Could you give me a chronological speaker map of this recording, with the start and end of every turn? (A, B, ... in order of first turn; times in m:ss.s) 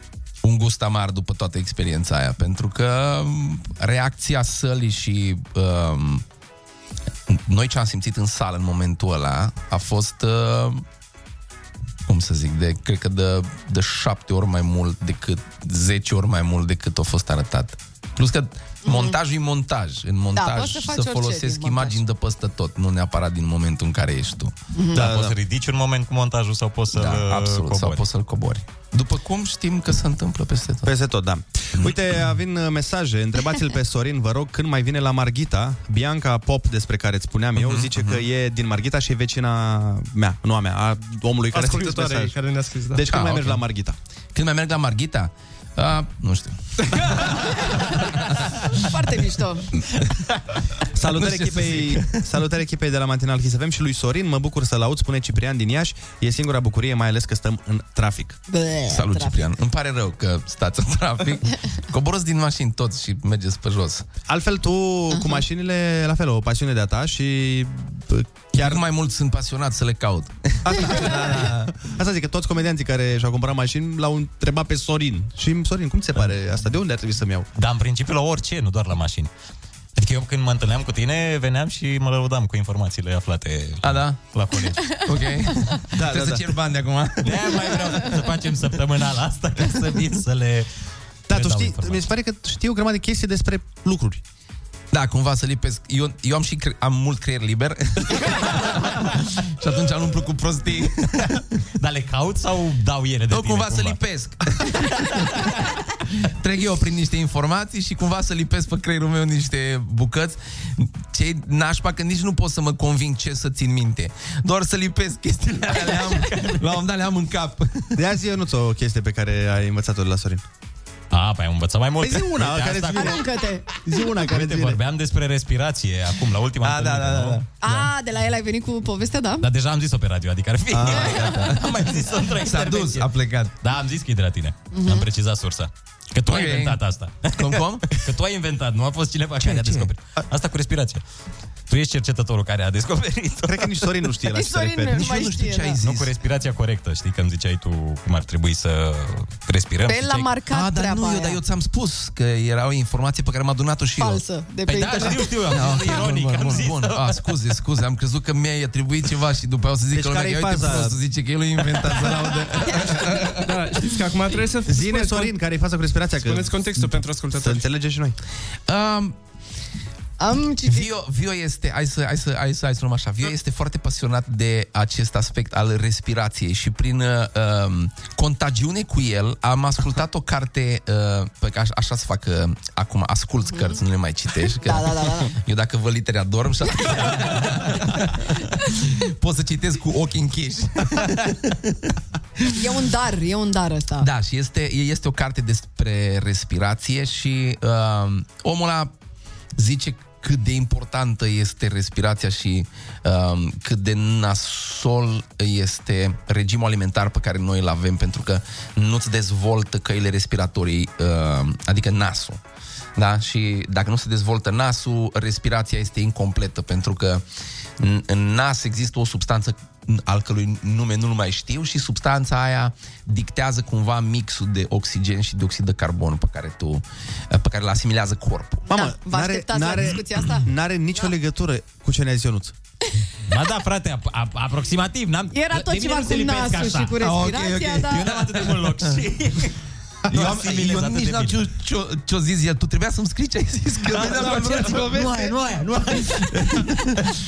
0:00.4-0:06.2 A
0:07.3-0:10.8 A
0:12.0-0:24.5 A
0:18.8-0:19.2 B
0:20.3-0:22.0 B
0:24.7-0:25.0 B
0:24.9-0:25.3 C
0:24.9-0:28.0 D
0:26.9-0:30.9 A
0:30.8-0:42.4 C
0:37.6-0:38.2 A
0:41.5-0:43.1 E
0:42.9-0:44.0 C
0:43.0-0:43.6 A
0:44.3-0:47.2 A
0:48.8-0:49.7 B
0:50.9-0:58.4 C
0:51.0-0:52.2 A
0:58.5-0:59.5 B
0:58.9-1:04.1 A
1:04.2-1:08.8 C
1:05.1-1:05.4 B
1:08.5-1:11.7 A
1:10.6-1:17.5 C
1:17.6-1:19.3 D
1:20.0-1:25.0 D
1:23.8-1:24.2 A
1:25.0-1:27.4 A
1:25.9-1:26.4 C
1:27.2-1:30.7 D
1:31.3-1:32.0 D
1:31.3-1:34.2 C
1:34.9-1:41.3 A
1:41.8-1:44.0 D
1:43.3-1:45.3 A
1:46.2-1:57.9 A
1:56.1-1:56.6 D
1:57.9-2:00.4 C
2:01.1-2:03.3 D
2:02.0-2:03.2 C
2:02.9-2:03.6 B
2:03.8-2:04.8 C
2:04.1-2:07.9 D
2:06.6-2:07.4 A
2:07.6-2:09.4 B
2:09.4-2:13.1 D
2:10.7-2:11.1 C
2:10.8-2:11.7 A
2:10.9-2:11.6 B
2:12.4-2:13.5 A
2:13.6-2:21.0 D
2:14.7-2:15.1 B
2:16.2-2:16.8 A
2:17.3-2:17.9 A
2:19.4-2:19.9 A
2:21.7-2:23.9 D
2:23.4-2:25.1 C
2:24.3-2:25.8 B
2:24.9-2:26.1 A
2:25.8-2:30.3 D
2:29.8-2:31.4 B
2:30.5-2:34.2 A
2:34.0-2:35.4 B
2:34.6-2:37.2 D
2:35.5-2:43.6 A
2:39.9-2:41.0 C
2:42.1-2:42.5 D
2:43.4-2:45.3 E
2:44.6-2:48.2 C
2:46.2-2:47.7 E
2:48.7-2:49.2 A
2:50.2-2:50.9 B
2:50.6-3:11.9 A
3:03.5-3:03.8 B
3:04.5-3:05.4 B
3:06.8-3:07.5 B
3:12.5-3:14.1 B
3:14.0-3:18.9 A
3:19.6-3:32.4 A
3:33.0-3:37.2 A
3:37.8-3:48.7 A
3:48.7-3:52.5 C
3:48.7-3:50.5 B
3:53.3-3:57.0 D
3:55.3-3:58.1 B
3:57.0-3:59.0 A
3:57.8-3:59.5 D
4:00.1-4:05.3 A
4:00.1-4:01.4 D
4:04.0-4:06.7 D
4:06.1-4:07.1 A